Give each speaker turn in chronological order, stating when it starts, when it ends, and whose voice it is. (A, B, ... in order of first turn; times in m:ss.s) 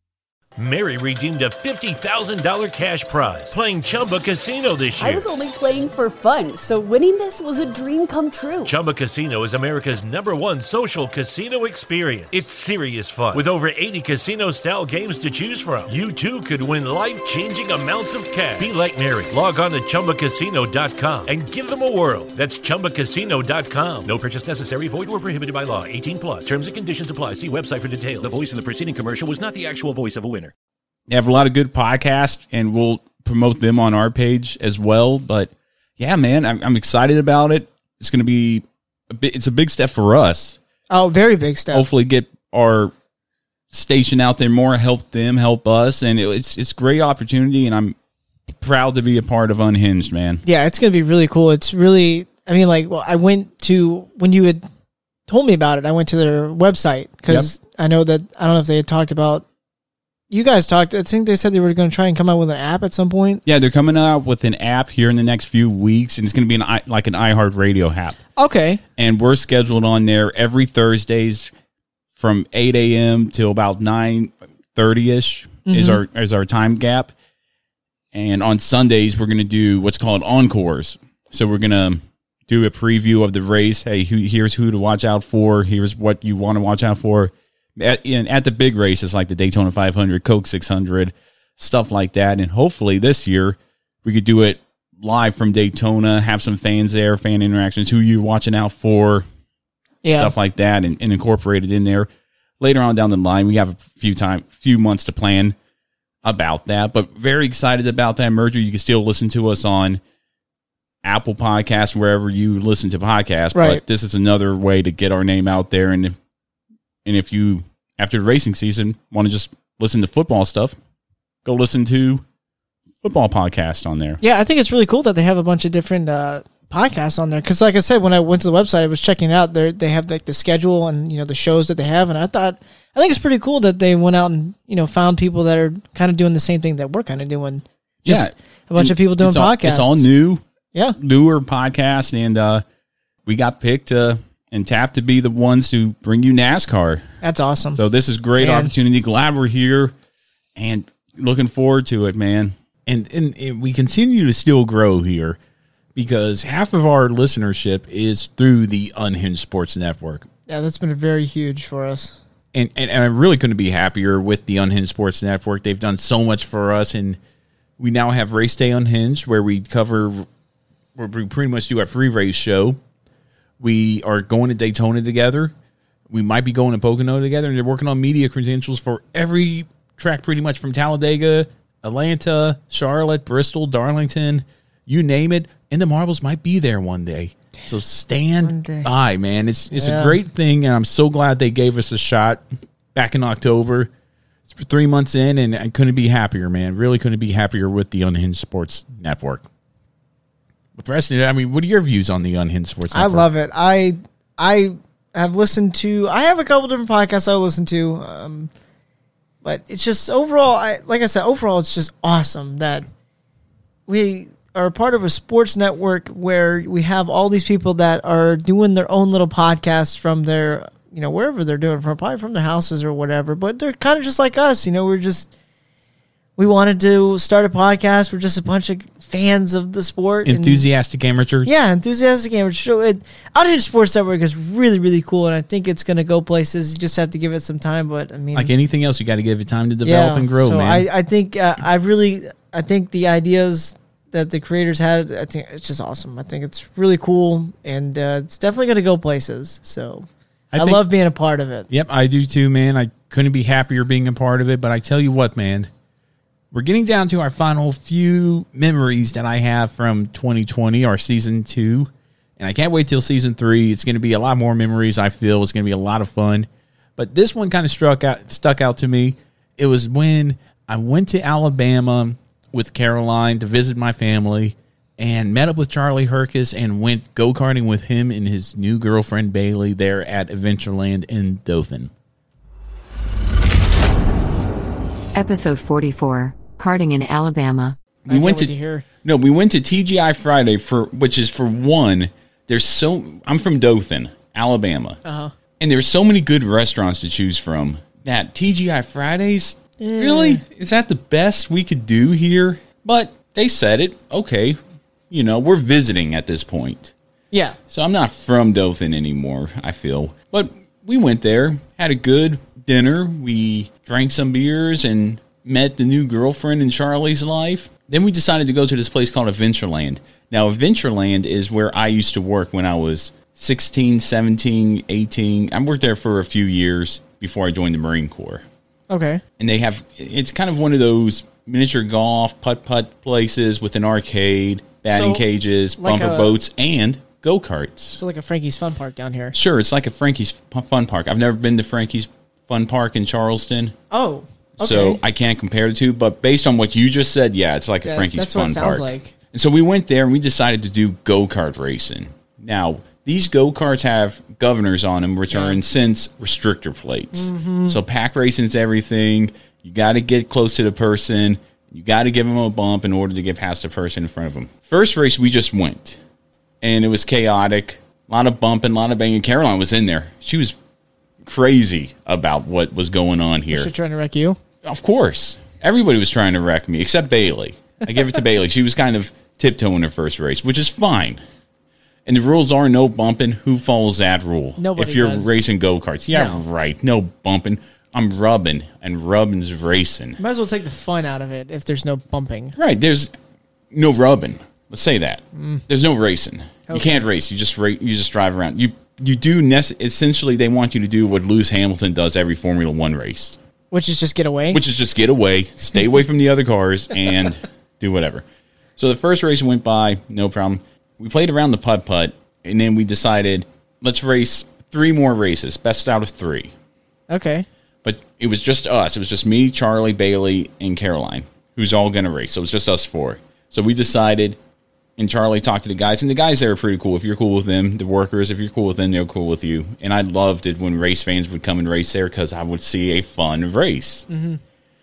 0:00.6-0:05.3 A
0:05.0-0:08.8 B
0:08.6-0:30.5 A
0:31.1-0:40.6 C
0:40.9-0:41.9 D
0:41.7-0:42.9 C
0:43.7-0:48.0 C
0:48.6-0:50.4 C
0:50.4-0:54.6 D
0:55.3-0:59.4 D
1:00.3-1:03.4 D
1:03.5-1:08.2 C
1:08.4-1:08.8 D
1:09.0-1:11.5 C
1:12.2-1:17.1 C
1:15.7-1:16.0 D
1:18.1-1:39.3 C
1:40.0-1:40.3 D
1:40.1-1:45.6 C
1:46.2-1:50.0 C
1:51.0-1:56.2 C
1:53.6-1:53.8 D
1:57.0-2:00.8 C
2:01.4-2:02.2 C
2:03.0-2:04.2 C
2:04.2-2:20.1 D
2:18.0-2:20.4 C
2:21.0-2:22.6 C
2:23.2-2:27.0 C
2:27.2-2:27.8 D
2:27.8-2:30.0 C
2:28.4-2:28.7 D
2:30.6-2:35.4 C
2:36.0-2:40.3 C
2:40.5-2:42.2 D
2:42.5-2:47.2 C
2:47.8-2:50.3 C
2:51.0-2:52.8 C
2:53.6-2:55.5 C
2:56.1-3:13.9 C
3:08.4-3:08.9 D
3:09.7-3:10.2 D
3:14.5-3:19.4 C
3:20.8-3:23.3 C
3:22.9-3:28.5 D
3:29.4-3:32.9 D
3:33.9-3:45.3 D
3:46.4-3:50.7 D
3:50.2-3:51.5 C
3:51.4-3:58.5 D
3:58.3-4:00.9 C
3:59.8-4:11.7 D
4:10.5-4:10.9 C
4:11.7-4:15.7 C
4:16.5-4:41.9 C
4:45.2-4:47.8 E
4:48.1-4:55.0 C
4:48.1-4:48.8 D
4:55.0-4:55.3 D
4:55.6-5:04.6 C
4:59.8-5:00.4 D
5:05.1-5:06.9 C
5:07.3-5:07.6 D
5:07.7-5:28.4 C
5:28.9-5:29.2 D
5:29.4-5:38.0 C
5:34.9-5:35.2 D
5:35.8-5:36.3 D
5:38.0-5:39.4 D
5:39.3-5:43.8 C
5:43.9-5:45.0 D
5:44.6-6:06.0 C
5:47.8-5:49.1 D
5:55.3-5:55.6 D
5:57.1-5:57.8 D
6:06.6-6:10.6 C
6:11.2-6:13.7 C
6:13.5-6:14.4 D
6:14.6-6:21.2 C
6:22.1-6:30.2 C
6:24.6-6:25.4 D
6:30.2-6:32.6 D
6:32.6-6:33.1 C
6:33.7-6:43.4 C
6:35.4-6:35.6 D
6:36.7-6:37.0 D
6:43.7-6:44.6 D
6:44.5-6:48.2 C
6:48.8-6:56.5 C
6:57.1-6:57.5 D
6:57.8-7:04.4 C
7:05.0-7:14.1 C
7:14.1-7:14.4 D